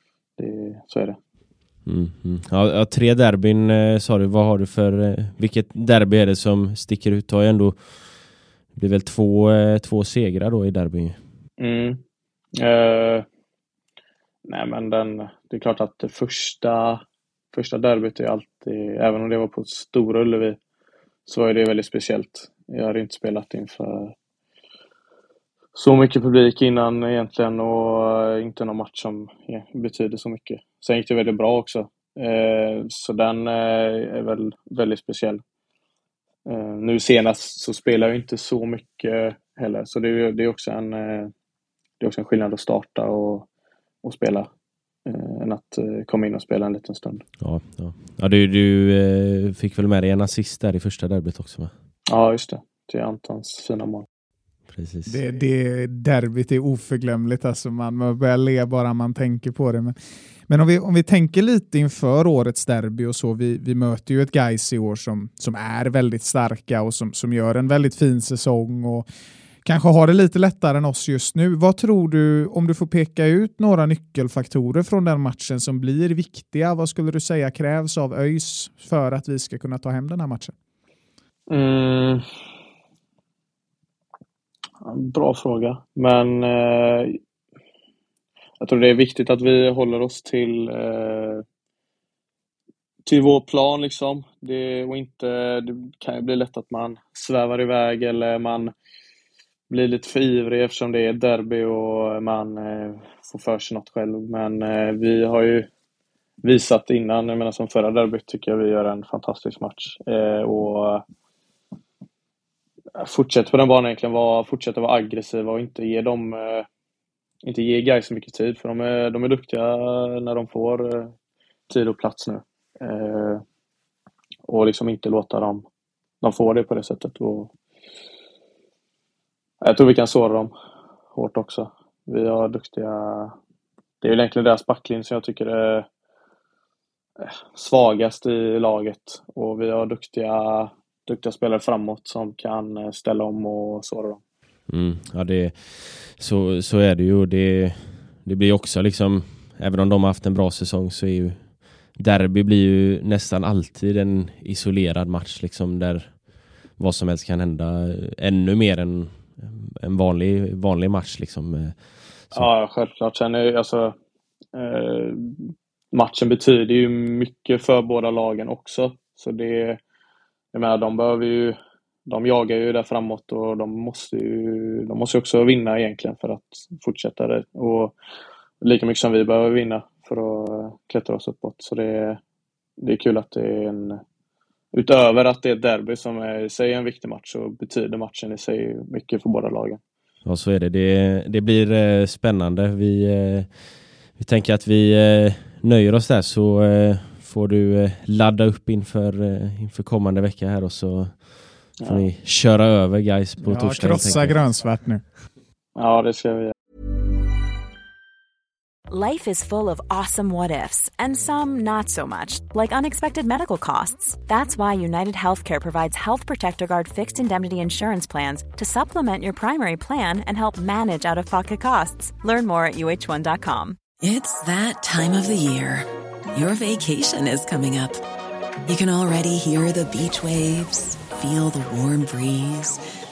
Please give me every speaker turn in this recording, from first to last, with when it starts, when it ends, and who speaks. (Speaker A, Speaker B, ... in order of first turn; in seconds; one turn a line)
Speaker A: 0.4-1.2
Speaker B: 1.9-8.2
Speaker B: 8.7-11.2
Speaker A: 11.6-12.0
Speaker A: 12.6-13.3
Speaker A: 14.5-20.6
Speaker A: 21.3-24.1
Speaker A: 25.8-35.4
Speaker A: 36.5-41.3
Speaker A: 42.0-43.5
Speaker A: 44.0-44.5
Speaker A: 45.1-47.2
Speaker B: 47.4-51.7
Speaker A: 52.1-54.1
Speaker B: 54.7-55.2
Speaker C: 55.1-60.0
Speaker C: 60.5-69.1
Speaker C: 69.6-80.5
Speaker A: 81.5-82.2
Speaker A: 84.8-87.2
Speaker A: 88.6-91.4
Speaker A: 93.1-98.7
Speaker A: 99.7-105.7
Speaker A: 106.4-111.0
Speaker A: 113.0-116.7
Speaker A: 117.4-121.1
Speaker A: 121.7-123.4
Speaker A: 124.5-125.7
Speaker A: 126.2-127.5
Speaker A: 129.6-130.5
Speaker A: 131.1-133.3
Speaker A: 134.0-135.9
Speaker A: 137.2-144.2
Speaker B: 144.7-156.2
Speaker B: 156.8-161.8
Speaker A: 162.3-163.9
Speaker A: 164.5-169.8
Speaker A: 170.5-177.9
Speaker A: 178.6-182.2
Speaker A: 182.8-184.0
Speaker A: 184.7-189.8
Speaker B: 190.2-193.5
Speaker B: 194.2-204.4
Speaker A: 201.8-202.1
Speaker C: 203.4-205.0
Speaker A: 205.8-206.5
Speaker D: 208.9-223.8
Speaker E: 224.0-228.0
Speaker E: 228.7-232.8